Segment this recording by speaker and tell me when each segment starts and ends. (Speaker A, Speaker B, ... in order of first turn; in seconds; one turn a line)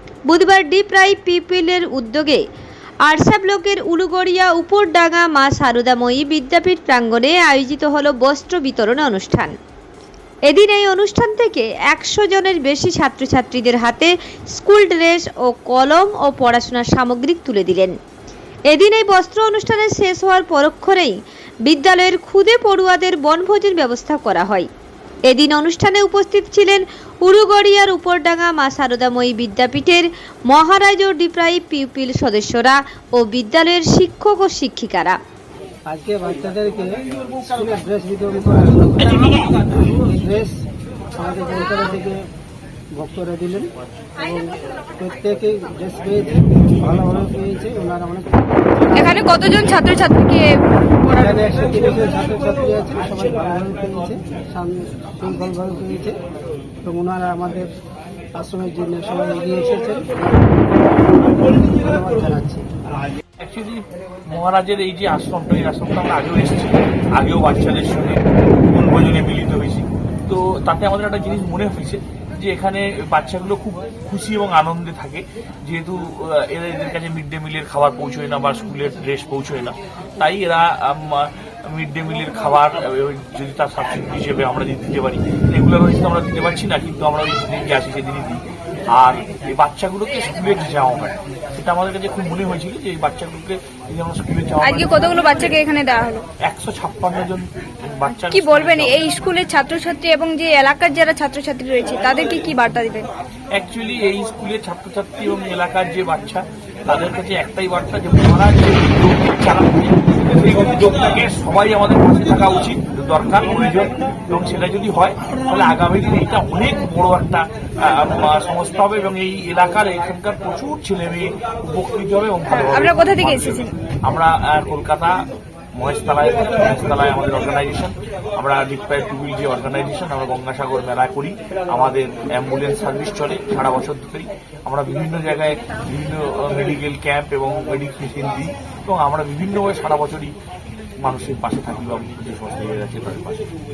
Speaker A: 0.3-2.4
Speaker A: 3.0-9.5
Speaker A: 10.5-17.9
Speaker A: 18.7-21.1
Speaker A: 21.6-24.7
Speaker A: 25.3-35.2
Speaker B: 35.9-40.6
Speaker B: 41.1-42.2
Speaker B: 42.9-49.5
Speaker C: 48.9-51.3
Speaker B: 51.1-56.2
Speaker B: 56.8-57.7
Speaker B: 58.3-60.9
Speaker B: 61.4-62.6
Speaker D: 63.4-63.8
Speaker D: 64.3-95.5
Speaker C: 94.6-96.2
Speaker D: 96.4-99.2
Speaker C: 98.2-103.1
Speaker D: 103.5-125.2
Speaker C: 122.5-123.7
Speaker D: 125.7-140.3
Speaker D: 141.0-143.4